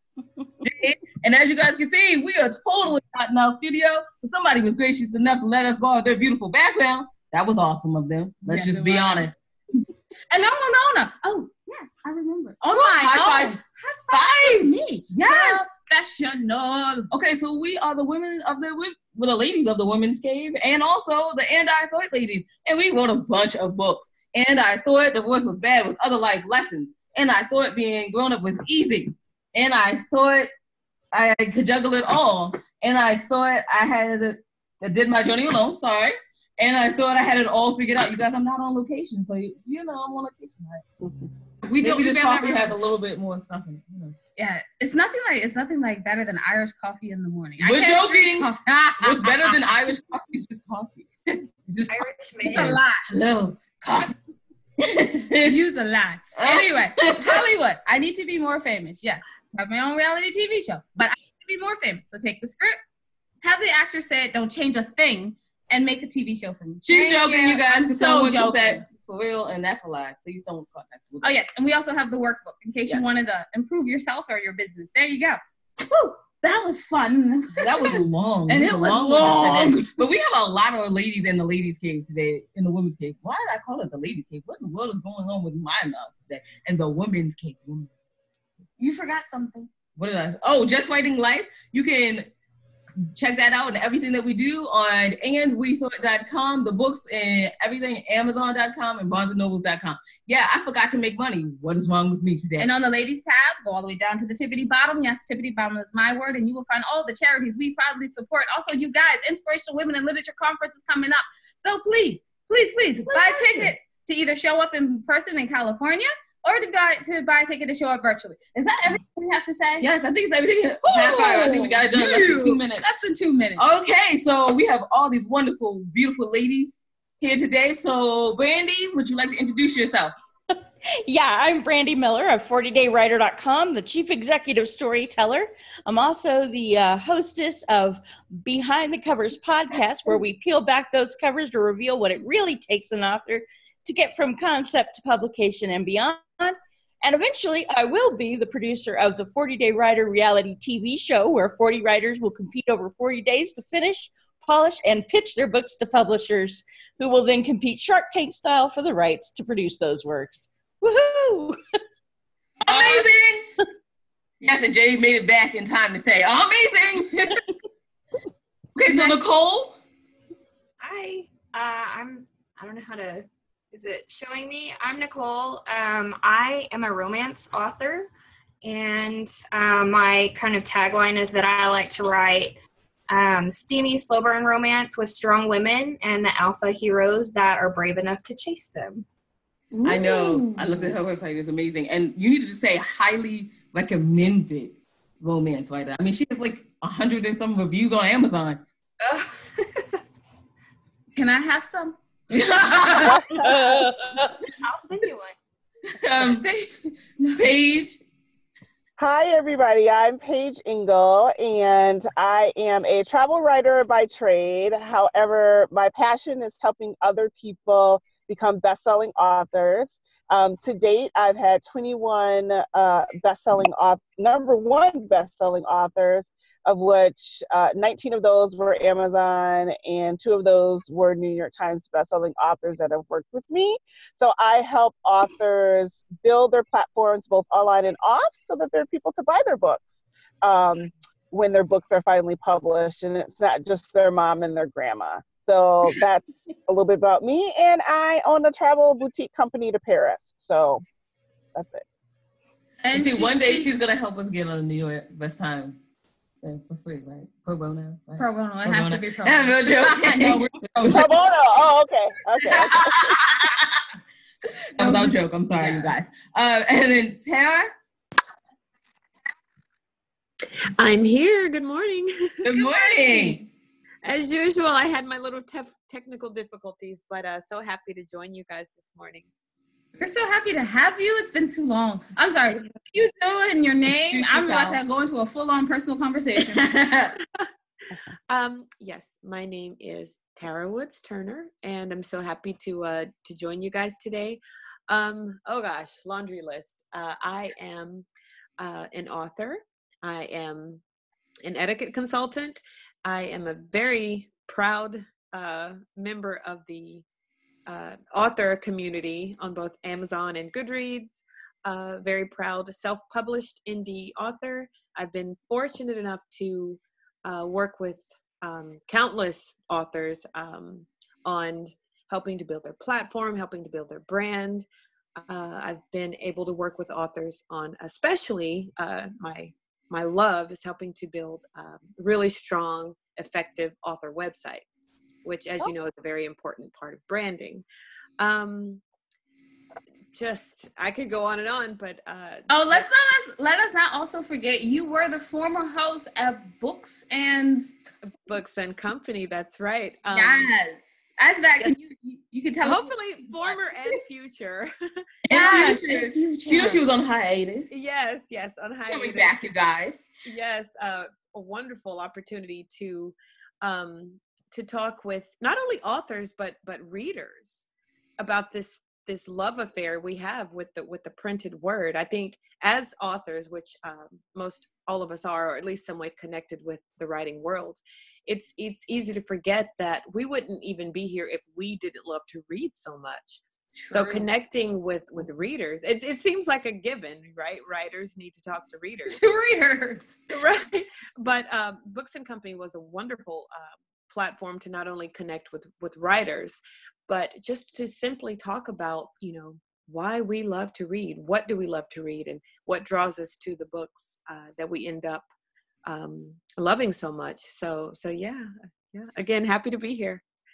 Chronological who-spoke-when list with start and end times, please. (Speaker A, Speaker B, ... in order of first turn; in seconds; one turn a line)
Speaker A: 0.6-9.4
Speaker B: 8.5-9.3
Speaker B: 10.3-17.1
Speaker A: 12.7-15.7
Speaker A: 17.1-30.5
Speaker A: 31.1-40.8
Speaker C: 41.0-41.3
Speaker B: 41.6-42.8
Speaker A: 41.8-44.1
Speaker B: 44.4-49.6
Speaker A: 47.6-54.1
Speaker D: 51.9-52.8
Speaker B: 52.4-53.0
Speaker A: 54.8-55.6
Speaker B: 55.4-62.8
Speaker A: 56.4-57.5
Speaker B: 63.4-68.8
Speaker A: 66.8-71.3
Speaker B: 71.2-79.9
Speaker A: 72.8-73.1
Speaker A: 77.5-87.9
Speaker B: 88.8-89.7
Speaker A: 89.9-92.3
Speaker A: 93.1-102.7
Speaker B: 102.6-119.9
Speaker A: 113.0-113.7
Speaker A: 119.8-122.9
Speaker B: 120.8-123.6
Speaker A: 123.6-130.1
Speaker E: 131.0-161.8
Speaker A: 162.6-163.5
Speaker A: 164.4-167.4
Speaker A: 168.7-169.8
Speaker D: 170.8-178.1
Speaker D: 178.6-189.1
Speaker B: 189.7-190.9
Speaker A: 189.8-198.6
Speaker D: 199.0-200.0
Speaker B: 201.1-203.4
Speaker A: 202.3-203.3
Speaker C: 203.2-203.5
Speaker E: 203.3-204.4
Speaker D: 204.6-205.3
Speaker A: 205.9-206.5
Speaker B: 206.2-206.7
Speaker B: 207.2-207.4
Speaker A: 207.3-208.0
Speaker C: 209.0-250.8
Speaker C: 251.5-251.8
Speaker B: 252.8-253.7
Speaker A: 252.9-255.8
Speaker A: 256.4-261.1
Speaker B: 258.2-260.4
Speaker C: 260.9-263.1
Speaker A: 262.5-263.7
Speaker A: 264.8-267.7
Speaker B: 264.8-265.9
Speaker F: 270.8-272.4
Speaker A: 272.4-273.4
Speaker B: 272.5-273.4
Speaker F: 274.0-279.3
Speaker B: 280.0-286.7
Speaker A: 283.9-284.8
Speaker A: 286.5-287.1
Speaker F: 288.3-298.1
Speaker F: 298.6-300.8
Speaker F: 301.4-307.0
Speaker F: 307.7-324.7
Speaker F: 325.2-337.6
Speaker F: 338.2-338.8
Speaker F: 340.1-342.8
Speaker B: 342.5-347.7
Speaker F: 348.1-350.5
Speaker B: 350.1-353.7
Speaker F: 352.6-354.7
Speaker A: 355.2-357.7
Speaker B: 355.3-356.8
Speaker F: 357.7-359.4
Speaker A: 358.9-360.1
Speaker F: 360.2-367.6
Speaker F: 368.2-389.2
Speaker B: 383.8-384.2
Speaker B: 389.1-390.2
Speaker F: 390.3-405.2
Speaker F: 405.9-410.2